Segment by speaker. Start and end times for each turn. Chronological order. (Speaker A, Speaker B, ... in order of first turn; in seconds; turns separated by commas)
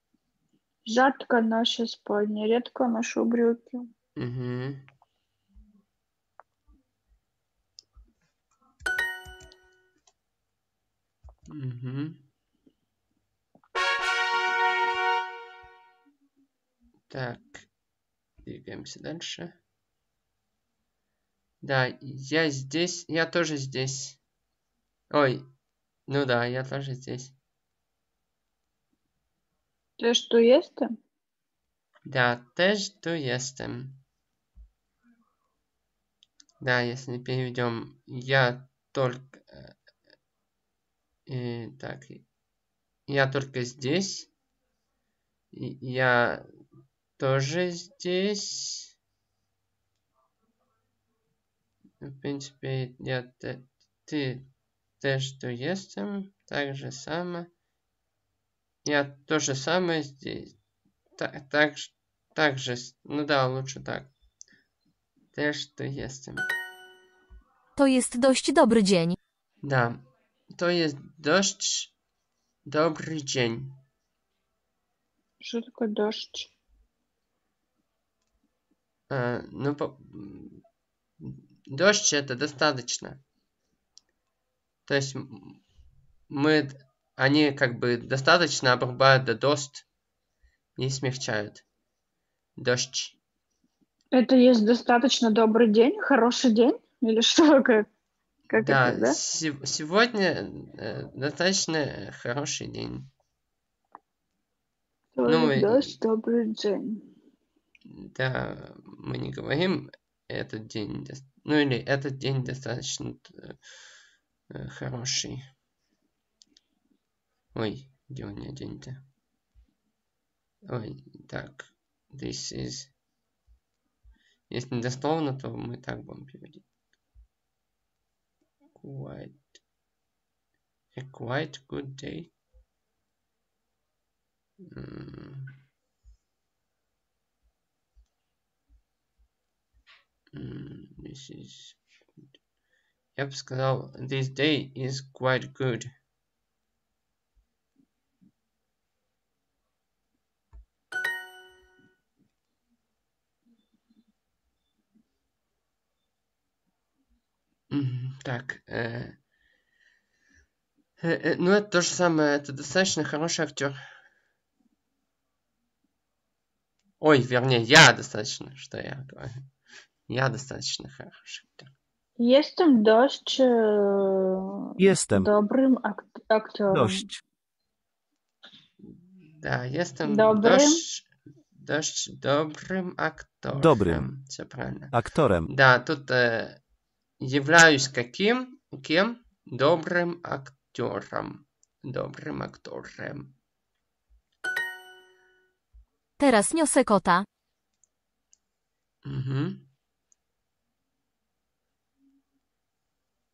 Speaker A: 0.9-3.9, Speaker B: 4.2-4.9, Speaker B: 11.5-12.2, Speaker B: 17.1-17.7, Speaker B: 18.4-19.6, Speaker B: 21.6-24.2, Speaker B: 25.1-25.5, Speaker B: 26.1-27.4, Speaker A: 30.0-30.9, Speaker B: 32.0-34.0, Speaker B: 36.6-39.7, Speaker B: 41.3-42.2, Speaker B: 43.1-44.3, Speaker B: 45.5-46.5, Speaker B: 47.2-48.9, Speaker B: 52.0-54.5, Speaker B: 55.0-57.5, Speaker B: 58.9-60.5, Speaker B: 61.2-64.1, Speaker B: 65.3-66.5, Speaker C: 67.8-69.2, Speaker B: 69.6-70.0, Speaker B: 70.5-71.9, Speaker B: 72.7-73.8, Speaker A: 75.4-76.5, Speaker B: 79.1-80.6, Speaker B: 81.2-83.2, Speaker B: 84.9-85.6, Speaker B: 86.3-89.8, Speaker B: 90.8-91.6, Speaker B: 92.6-93.2, Speaker A: 94.1-97.9, Speaker A: 98.5-99.2, Speaker B: 98.5-103.1, Speaker A: 105.2-107.1, Speaker B: 105.3-106.0, Speaker B: 107.9-113.6, Speaker B: 114.5-115.5, Speaker B: 117.5-119.0, Speaker B: 120.7-122.9, Speaker B: 124.5-126.6, Speaker B: 128.8-129.4, Speaker B: 130.9-132.3, Speaker B: 134.6-135.6, Speaker B: 140.3-141.8, Speaker B: 143.2-145.9, Speaker B: 157.7-159.2, Speaker B: 161.0-163.8, Speaker B: 167.0-169.4, Speaker B: 170.1-171.7, Speaker A: 172.2-177.1, Speaker D: 174.8-175.3, Speaker D: 176.7-177.2, Speaker B: 178.8-184.9, Speaker A: 180.1-180.8, Speaker D: 183.5-184.1, Speaker D: 184.9-185.5, Speaker B: 185.5-186.6, Speaker B: 187.2-193.4, Speaker C: 196.2-197.2, Speaker B: 199.0-199.7